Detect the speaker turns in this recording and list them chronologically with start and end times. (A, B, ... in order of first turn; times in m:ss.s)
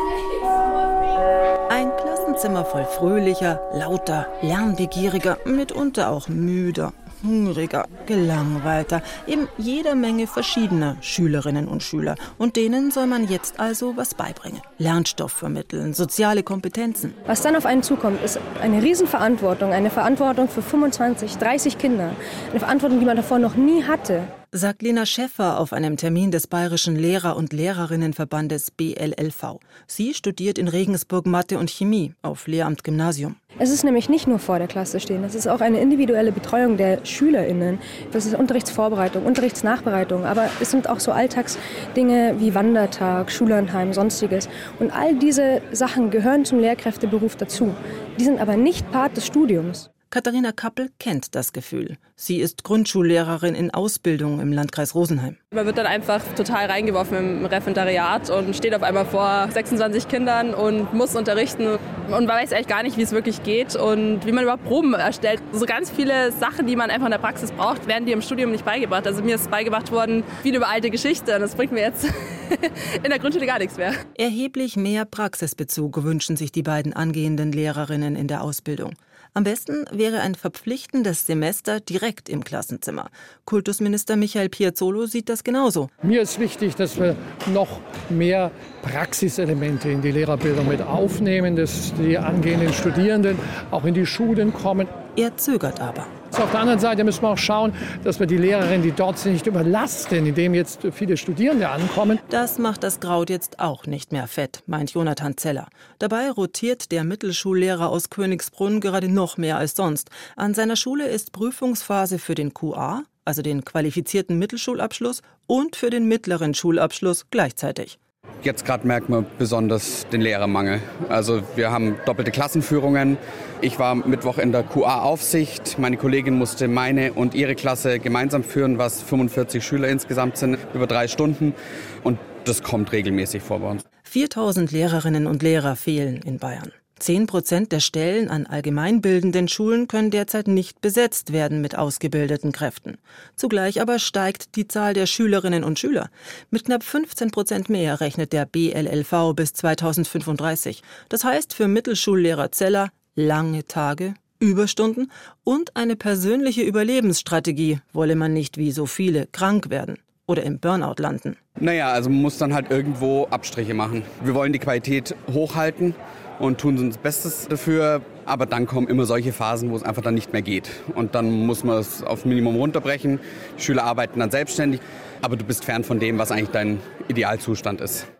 0:01.7-0:17.2 A
0:17.3-0:24.3 B
0:24.5-0:33.4 A
0:33.6-0:49.9 B
0:50.1-0:55.4 A
0:55.5-1:14.0 C
1:14.2-1:25.9 A
1:26.0-1:35.0 D
1:35.1-1:36.2 A
1:36.3-1:42.2 D
1:42.3-1:58.0 A
1:58.4-2:13.8 E
2:14.0-2:41.4 A
2:41.6-2:58.1 E